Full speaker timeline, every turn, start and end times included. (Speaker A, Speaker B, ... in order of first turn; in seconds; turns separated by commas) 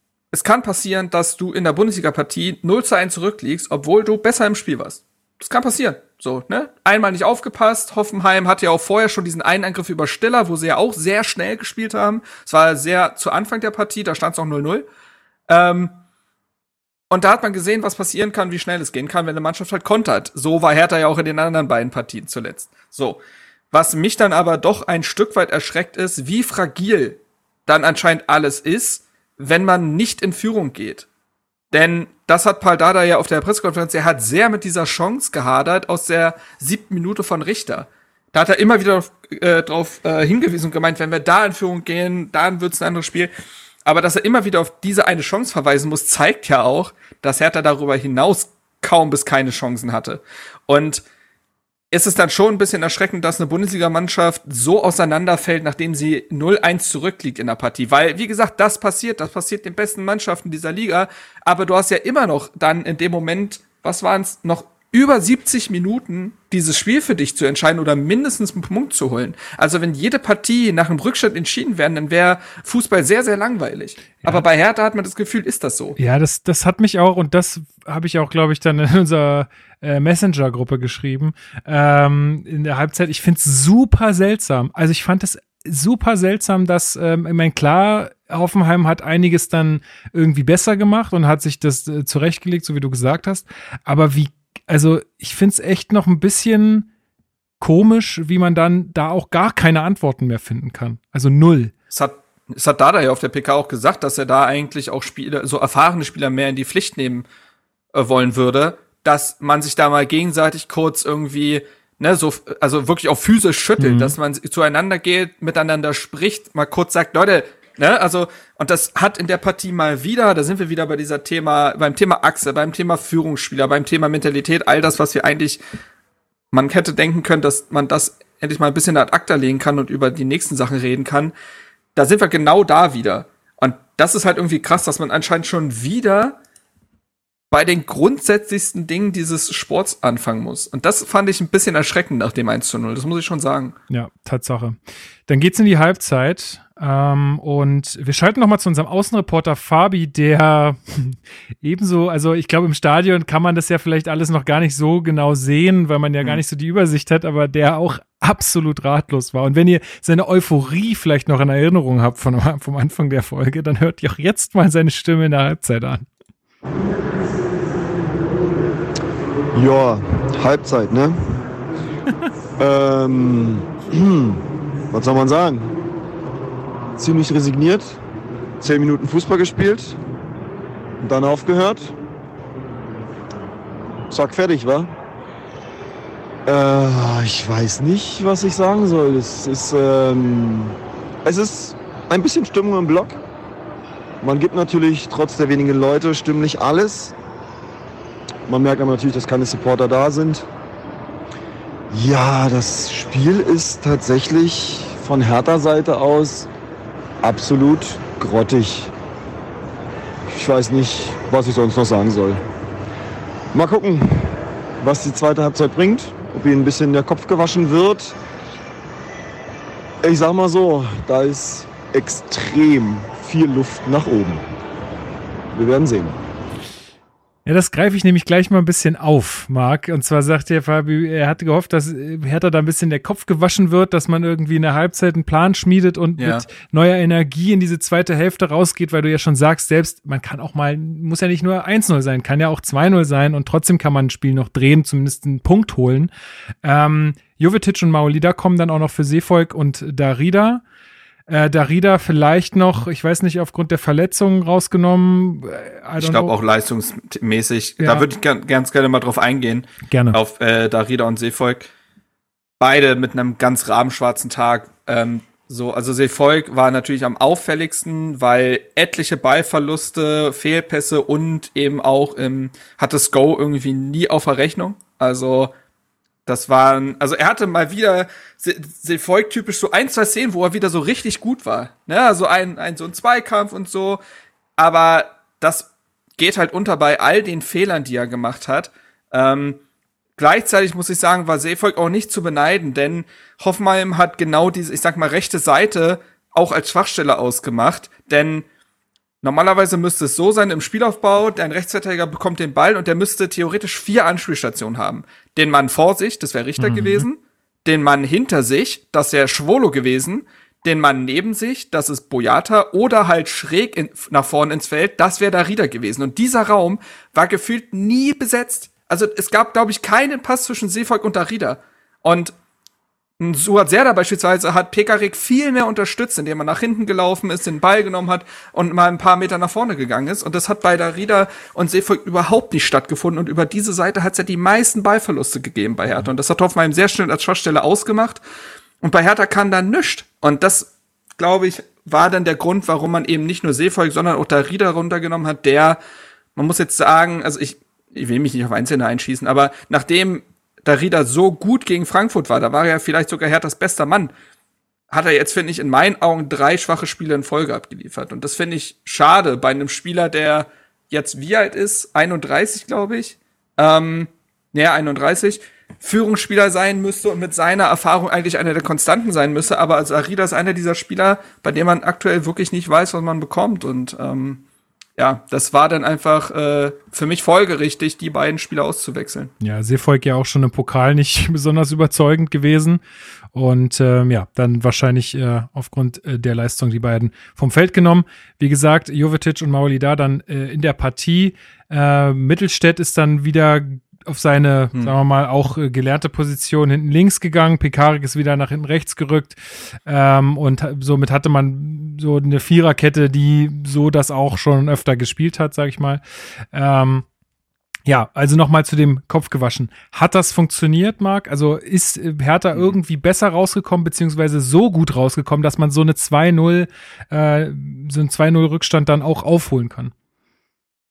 Speaker A: 0.3-14.9, Speaker A: 15.5-15.9, Speaker A: 17.1-23.2, Speaker A: 23.7-31.1, Speaker A: 31.7-43.3, Speaker A: 43.9-51.0, Speaker A: 51.9-76.0, Speaker B: 76.0-96.9, Speaker B: 97.6-101.7, Speaker A: 101.9-107.2, Speaker A: 107.9-125.6, Speaker B: 113.8-114.2, Speaker A: 126.5-131.3, Speaker A: 131.9-136.4, Speaker A: 137.5-143.8, Speaker B: 143.9-166.1, Speaker C: 169.5-171.4, Speaker C: 172.6-175.8, Speaker C: 177.0-178.0, Speaker C: 178.6-180.0, Speaker C: 181.0-182.0, Speaker C: 184.1-184.9, Speaker C: 186.5-193.2, Speaker C: 194.2-197.2, Speaker C: 198.5-200.5, Speaker C: 201.9-206.5, Speaker C: 207.2-208.9, Speaker C: 210.3-212.4, Speaker C: 213.5-218.2, Speaker C: 220.0-224.5, Speaker C: 225.5-226.2, Speaker B: 227.5-246.1, Speaker A: 236.2-236.4, Speaker B: 246.6-250.6, Speaker B: 251.3-256.3, Speaker A: 256.0-261.7, Speaker B: 257.8-258.1, Speaker B: 259.9-260.2, Speaker A: 262.6-275.5, Speaker A: 276.3-284.0, Speaker A: 284.6-289.6, Speaker A: 290.2-298.4, Speaker A: 299.2-322.3, Speaker B: 306.6-307.1, Speaker A: 323.2-338.2, Speaker A: 338.8-345.8, Speaker A: 346.4-354.1, Speaker A: 354.9-374.4, Speaker A: 375.0-379.3, Speaker B: 379.4-382.8, Speaker B: 383.3-406.0, Speaker B: 406.5-407.1, Speaker B: 407.9-419.9